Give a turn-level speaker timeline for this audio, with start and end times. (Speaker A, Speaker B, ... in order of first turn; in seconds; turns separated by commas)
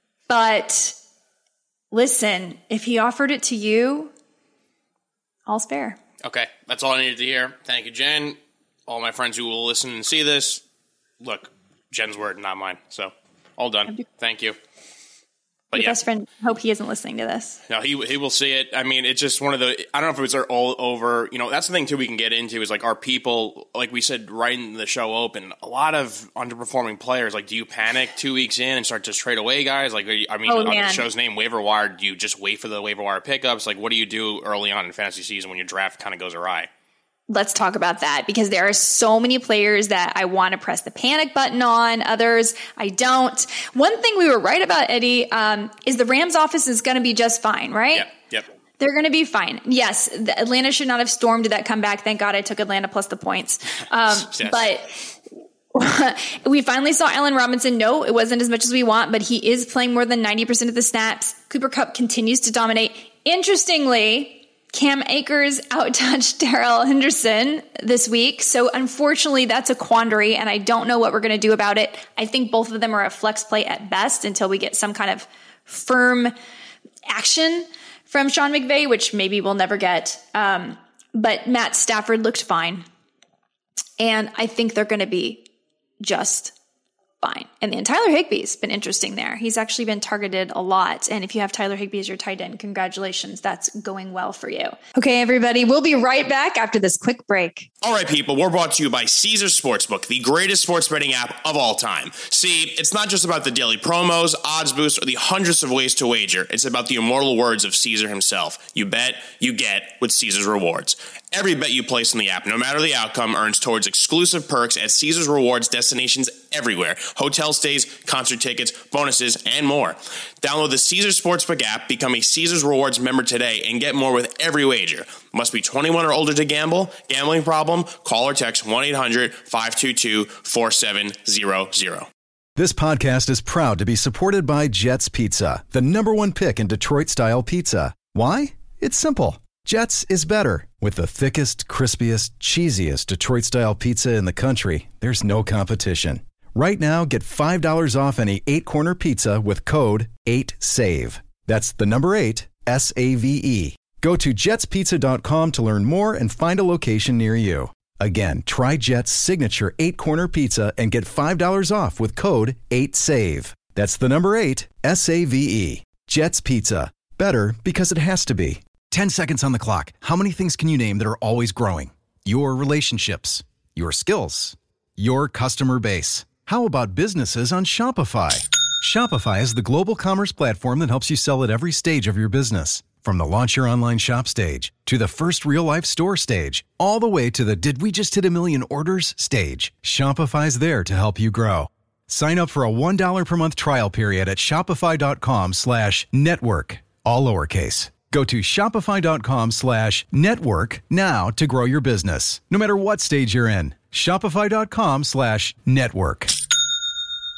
Speaker A: 0.3-0.9, Speaker A: 1.9-4.1, Speaker A: 5.5-6.0, Speaker B: 6.2-10.6, Speaker B: 11.2-14.6, Speaker B: 15.7-16.0, Speaker A: 15.7-17.6, Speaker B: 17.7-36.7, Speaker A: 30.4-31.1, Speaker A: 37.3-48.1, Speaker B: 47.9-48.5, Speaker A: 48.8-55.0, Speaker B: 54.1-54.7, Speaker A: 55.7-76.3, Speaker A: 77.0-82.8, Speaker A: 84.0-85.5, Speaker A: 86.0-86.5, Speaker A: 87.2-97.7, Speaker B: 97.8-132.1, Speaker C: 132.6-206.3